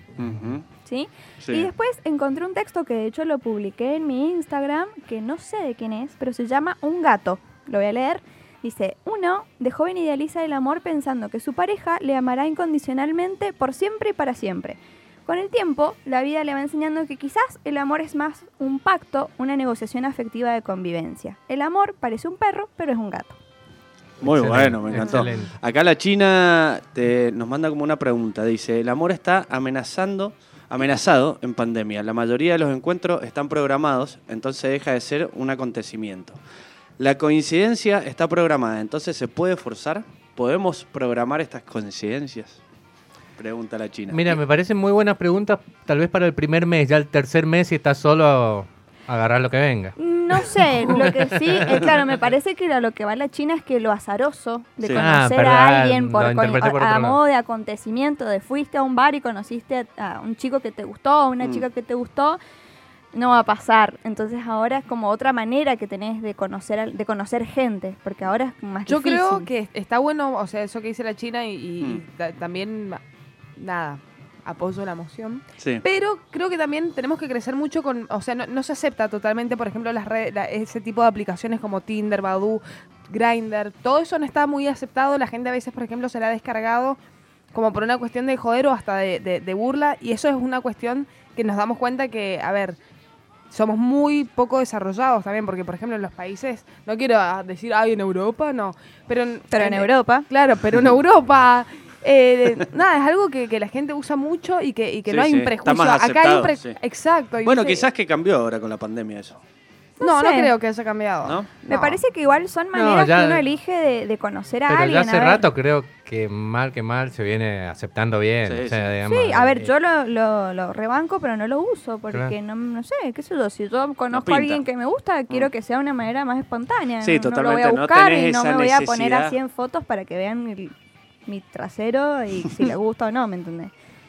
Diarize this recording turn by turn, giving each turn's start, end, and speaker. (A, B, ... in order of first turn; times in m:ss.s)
0:00.2-0:00.6 A
0:00.8-0:23.4 B
0:01.4-0:01.7 A
0:24.2-0:36.4 A
0:24.2-0:25.5 C
0:37.0-0:42.6 A
0:43.4-0:44.4 A
0:44.1-0:52.0 C
0:50.0-1:02.4 B
0:55.0-0:57.2 C
1:03.1-1:09.5 B
1:08.9-1:13.0 D
1:13.6-1:27.0 D
1:15.6-1:15.8 A
1:27.5-1:32.8 D
1:33.5-1:47.9 D
1:39.5-1:40.3 B
1:45.1-1:46.8 A
1:47.4-1:49.4 A
1:50.0-1:50.5 B
1:50.0-1:52.0 D
1:51.2-1:51.5 A
1:51.7-1:55.4 B
1:52.7-1:53.4 C
1:54.7-1:59.7 C
1:58.4-1:58.9 A
1:59.0-2:10.7 B
2:04.1-2:04.6 A
2:07.0-2:09.4 A
2:11.3-2:13.7 B